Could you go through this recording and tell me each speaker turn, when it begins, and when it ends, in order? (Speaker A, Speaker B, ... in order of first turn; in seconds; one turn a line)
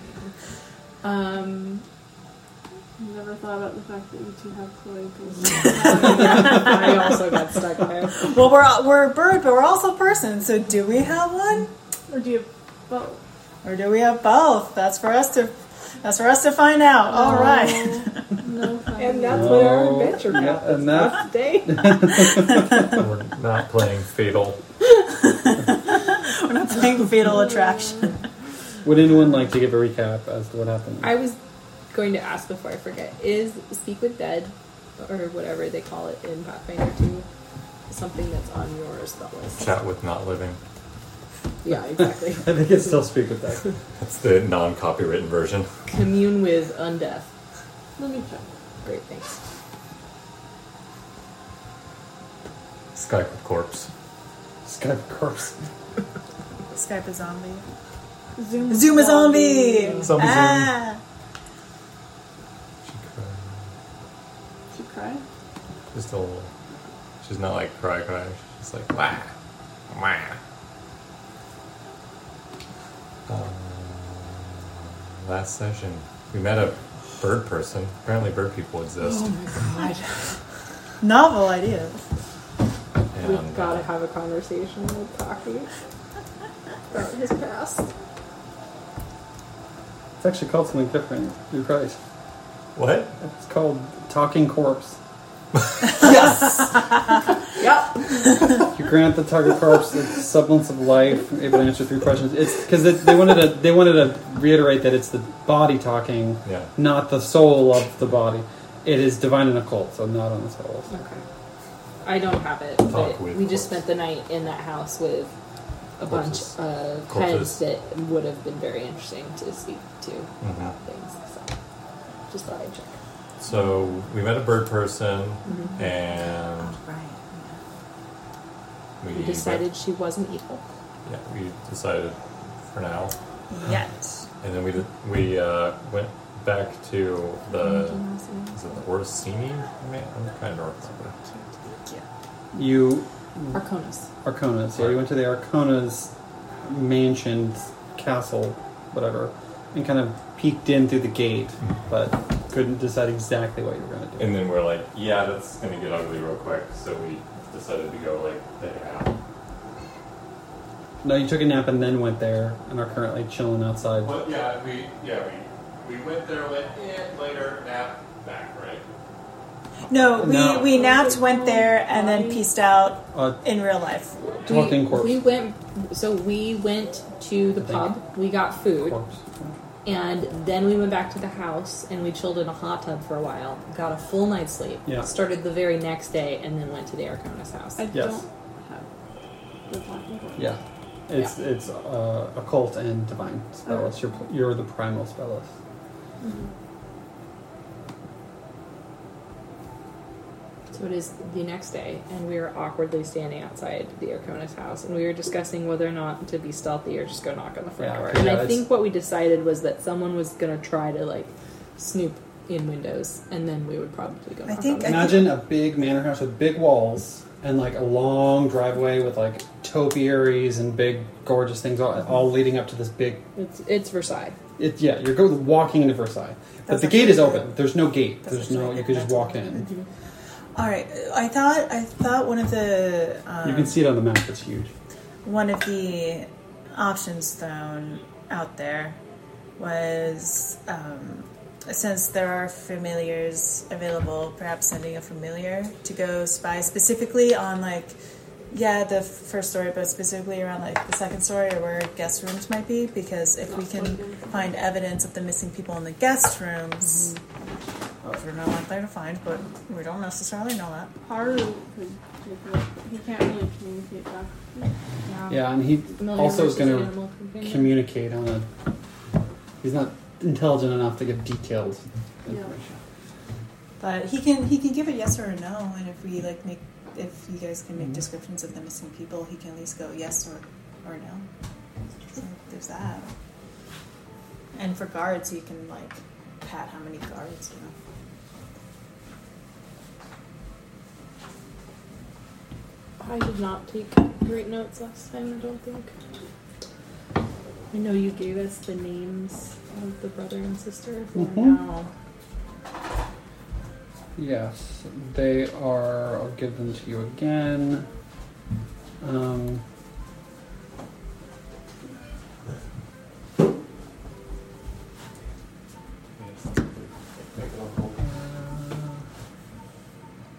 Speaker A: 1.0-1.8
Speaker B: 3.0-6.8
Speaker A: 5.6-8.2
Speaker C: 8.1-11.7
Speaker B: 12.1-13.2
Speaker C: 13.6-18.3
Speaker B: 17.1-19.6
Speaker A: 19.0-22.4
Speaker D: 19.3-22.7
Speaker E: 22.8-24.6
Speaker C: 25.0-28.2
Speaker B: 27.2-28.1
Speaker D: 28.8-31.1
Speaker A: 31.0-31.4
Speaker A: 31.9-37.2
Speaker A: 37.9-39.7
Speaker E: 39.6-40.6
Speaker A: 41.6-42.7
Speaker D: 42.0-43.6
Speaker E: 44.0-45.7
Speaker A: 45.9-47.3
Speaker B: 48.0-48.5
Speaker A: 48.8-49.4
Speaker E: 52.9-53.9
Speaker D: 54.6-55.6
Speaker C: 56.7-57.6
Speaker B: 58.4-60.1
Speaker C: 58.7-61.0
Speaker E: 60.0-60.8
Speaker E: 62.8-63.6
Speaker B: 64.7-65.2
Speaker E: 65.9-66.5
Speaker E: 67.2-69.3
Speaker E: 69.9-70.4
Speaker E: 73.2-79.3
Speaker A: 79.0-80.3
Speaker C: 81.0-82.0
Speaker E: 83.1-83.9
Speaker A: 83.2-85.7
Speaker A: 86.9-87.9
Speaker D: 90.2-92.0
Speaker E: 92.7-93.2
Speaker D: 93.2-95.0
Speaker A: 97.5-98.5
Speaker D: 98.7-110.9
Speaker E: 106.4-106.7
Speaker A: 110.9-111.2
Speaker A: 112.0-115.3
Speaker E: 112.8-113.8
Speaker A: 116.0-121.5
Speaker E: 116.0-116.5
Speaker E: 117.1-117.6
Speaker E: 120.4-120.7
Speaker A: 122.3-123.0
Speaker E: 123.4-126.8
Speaker A: 125.5-125.8
Speaker C: 125.5-126.0
Speaker C: 126.5-127.6
Speaker E: 129.0-129.7
Speaker A: 129.1-130.6
Speaker E: 131.1-133.1
Speaker C: 133.5-134.2
Speaker E: 134.4-141.1
Speaker A: 137.5-138.6
Speaker A: 141.2-141.7
Speaker D: 142.5-143.6
Speaker A: 143.5-144.1
Speaker D: 144.2-154.4
Speaker E: 144.7-145.0
Speaker E: 154.2-159.1
Speaker D: 161.0-164.1
Speaker E: 164.0-168.8
Speaker C: 169.9-174.2
Speaker D: 170.2-170.8
Speaker B: 170.5-172.5
Speaker D: 173.1-173.4
Speaker A: 174.4-179.0
Speaker D: 174.4-175.2
Speaker D: 177.6-178.0
Speaker D: 178.8-179.5
Speaker A: 179.8-187.9
Speaker B: 187.8-188.9
Speaker D: 187.9-188.2
Speaker B: 189.7-190.6
Speaker D: 190.3-195.5
Speaker B: 193.7-193.9
Speaker B: 196.2-196.5
Speaker A: 200.7-215.2
Speaker D: 207.8-208.7
Speaker C: 214.4-215.3
Speaker D: 214.8-223.2
Speaker A: 223.3-224.4
Speaker D: 224.6-229.7
Speaker C: 226.7-227.7
Speaker C: 228.2-229.7
Speaker C: 230.5-233.8
Speaker D: 233.4-234.7
Speaker C: 235.2-239.0
Speaker C: 239.6-248.0
Speaker C: 248.5-257.1
Speaker B: 253.4-254.5
Speaker A: 256.8-257.2
Speaker C: 258.1-261.1
Speaker B: 261.1-264.7
Speaker A: 265.1-267.8
Speaker D: 265.3-268.5
Speaker D: 269.6-272.8
Speaker B: 272.3-272.5
Speaker C: 273.8-281.3
Speaker C: 282.1-283.1
Speaker C: 284.5-287.7
Speaker A: 293.0-295.9
Speaker A: 297.7-301.9
Speaker D: 301.1-301.6
Speaker D: 304.1-307.9
Speaker D: 309.0-309.6
Speaker E: 316.2-318.0
Speaker D: 318.0-319.0